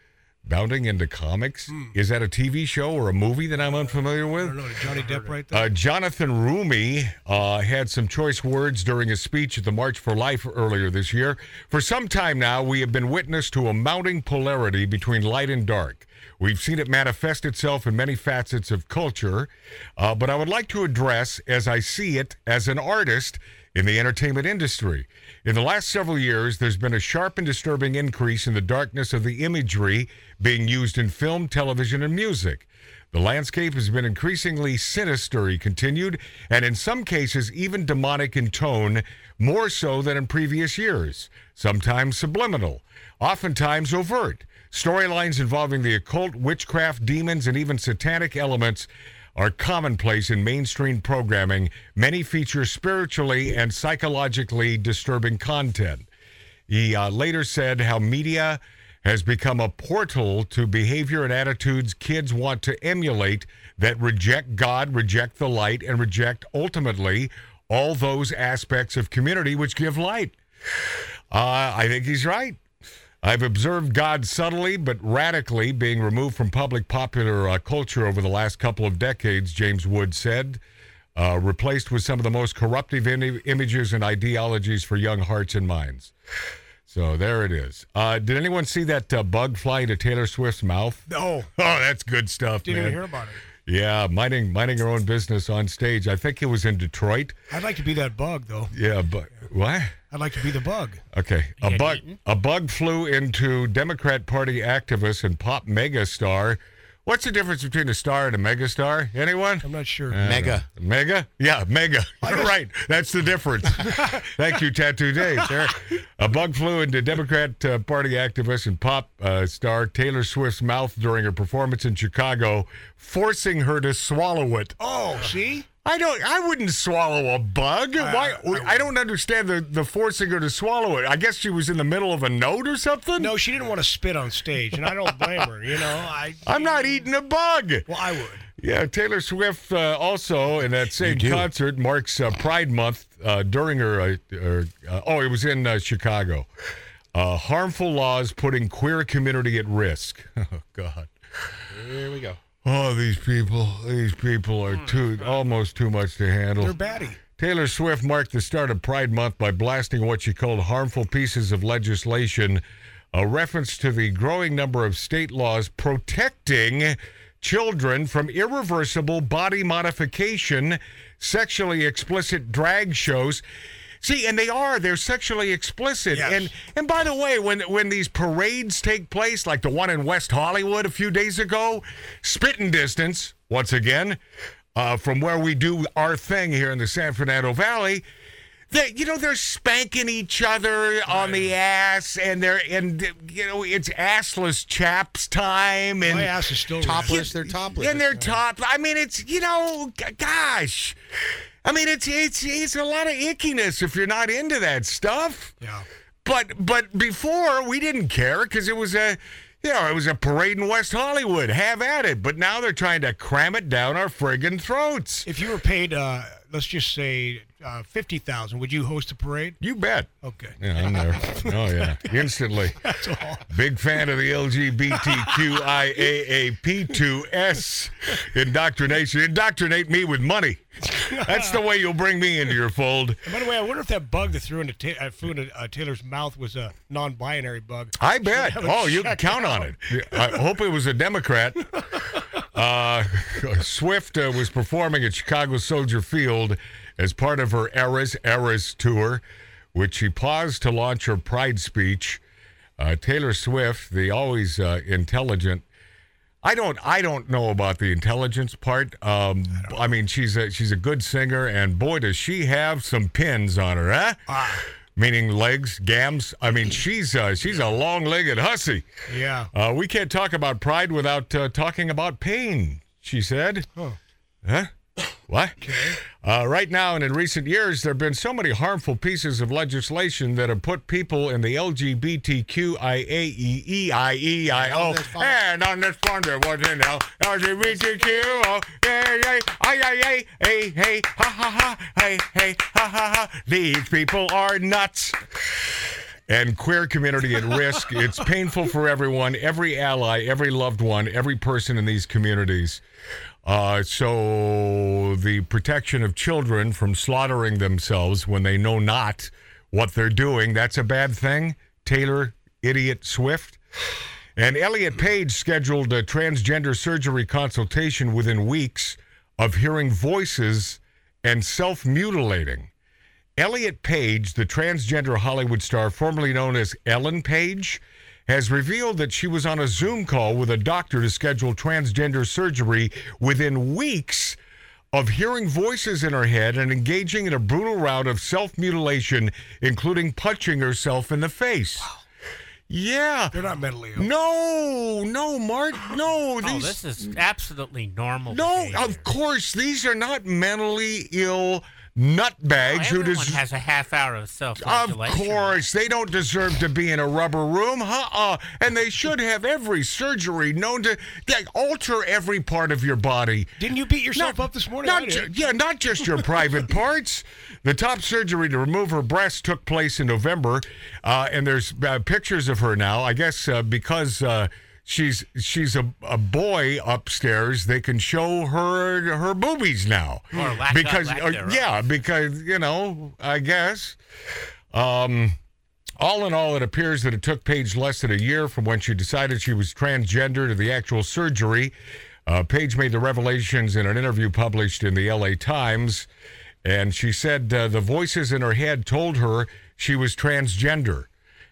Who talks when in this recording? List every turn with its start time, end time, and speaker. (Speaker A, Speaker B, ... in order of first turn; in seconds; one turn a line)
Speaker A: 0.4-56.1
Speaker B: 1.7-1.9
Speaker B: 4.4-5.7
Speaker A: 56.7-70.4
Speaker A: 71.3-72.6
Speaker A: 73.2-80.6
Speaker A: 81.1-86.1
Speaker A: 86.9-91.0
Speaker B: 91.1-91.5
Speaker A: 91.5-93.0
Speaker B: 92.6-93.4
Speaker A: 93.7-97.3
Speaker B: 97.5-98.7
Speaker A: 98.7-99.9
Speaker B: 100.1-101.0
Speaker A: 101.1-124.8
Speaker C: 101.6-102.2
Speaker B: 109.6-110.2
Speaker D: 110.2-110.7
Speaker B: 112.2-112.5
Speaker B: 113.8-114.3
Speaker D: 115.3-115.8
Speaker B: 124.8-125.7
Speaker A: 125.8-133.4
Speaker B: 128.0-128.9
Speaker B: 133.2-137.1
Speaker A: 136.4-137.9
Speaker B: 137.9-138.4
Speaker A: 138.6-146.5
Speaker D: 141.0-141.5
Speaker A: 147.1-151.1
Speaker D: 151.7-152.4
Speaker A: 152.6-156.7
Speaker C: 154.7-155.5
Speaker B: 156.6-157.2
Speaker A: 157.4-162.6
Speaker A: 163.1-173.4
Speaker A: 174.0-184.2
Speaker B: 176.1-176.5
Speaker A: 184.7-188.0
Speaker A: 188.7-196.3
Speaker B: 191.1-191.5
Speaker B: 196.0-197.3
Speaker D: 196.8-198.3
Speaker A: 197.0-201.0
Speaker A: 201.6-205.5
Speaker A: 206.2-215.2
Speaker B: 215.2-219.6
Speaker A: 219.6-222.9
Speaker B: 220.2-222.2
Speaker B: 222.8-223.4
Speaker A: 223.5-233.2
Speaker B: 224.9-225.8
Speaker B: 230.9-231.6
Speaker B: 233.2-240.2
Speaker A: 238.0-249.2
Speaker A: 249.7-252.2
Speaker A: 252.8-255.6
Speaker A: 256.4-264.2
Speaker B: 264.3-264.6
Speaker A: 264.9-268.9
Speaker B: 269.1-269.5
Speaker A: 269.5-273.7
Speaker A: 274.4-274.7
Speaker A: 275.3-295.6
Speaker B: 275.6-276.0
Speaker D: 284.5-285.4
Speaker A: 296.3-302.8
Speaker A: 303.4-313.6
Speaker A: 314.4-322.7
Speaker A: 323.4-334.4
Speaker A: 334.9-341.9
Speaker A: 342.7-343.4
Speaker B: 343.3-344.1
Speaker A: 344.0-346.8
Speaker C: 346.4-349.0
Speaker A: 348.3-353.4
Speaker C: 352.6-355.6
Speaker A: 354.6-363.5
Speaker B: 363.6-365.5
Speaker A: 364.1-384.0
Speaker C: 380.3-381.6
Speaker A: 384.7-385.4
Speaker A: 386.0-391.7
Speaker A: 392.2-396.1
Speaker A: 396.6-401.1